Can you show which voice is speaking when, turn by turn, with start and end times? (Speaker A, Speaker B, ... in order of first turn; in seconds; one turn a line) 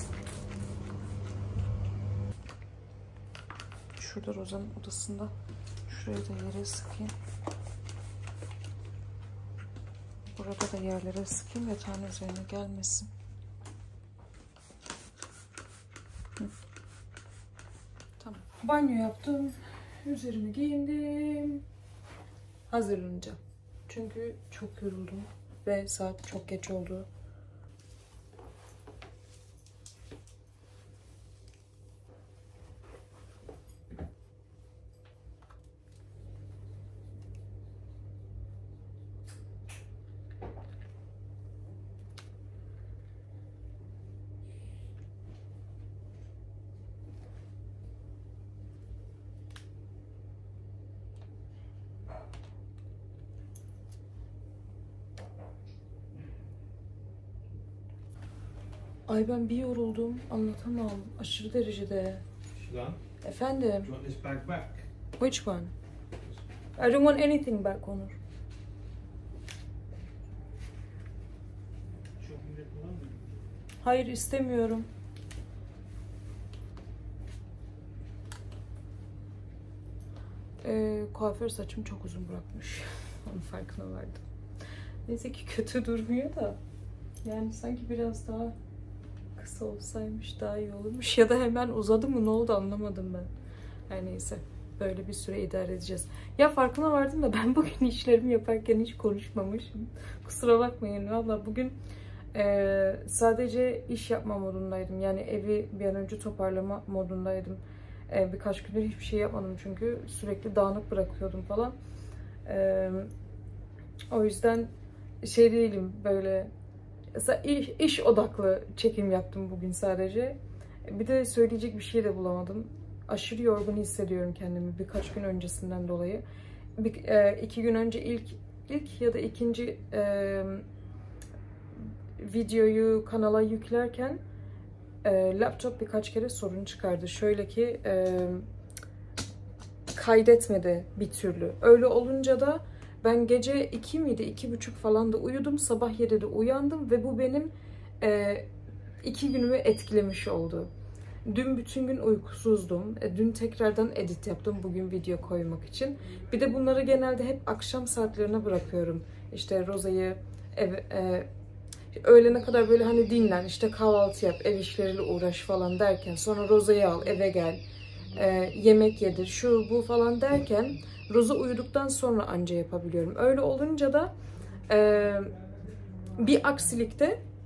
Speaker A: 4.0-5.3
Speaker A: 5.9-7.1
Speaker A: 10.3-13.1
Speaker A: 18.2-21.6
Speaker A: 22.7-27.1
Speaker A: 59.1-62.2
Speaker B: 62.5-63.0
Speaker A: 63.2-63.9
Speaker B: 63.8-64.9
Speaker A: 65.2-65.7
Speaker A: 66.8-68.2
Speaker B: 72.2-73.3
Speaker A: 73.8-74.9
Speaker A: 80.6-84.2
Speaker A: 85.0-86.6
Speaker A: 87.2-88.5
Speaker A: 89.4-93.3
Speaker A: 93.9-101.8
Speaker A: 102.3-111.8
Speaker A: 112.5-113.1
Speaker A: 114.1-116.5
Speaker A: 117.1-126.2
Speaker A: 126.8-130.7
Speaker A: 132.2-134.2
Speaker A: 135.0-138.5
Speaker A: 139.9-148.5
Speaker A: 149.0-150.7
Speaker A: 151.2-161.3
Speaker A: 161.9-167.6
Speaker A: 168.1-174.1
Speaker A: 174.7-175.4
Speaker A: 176.2-177.2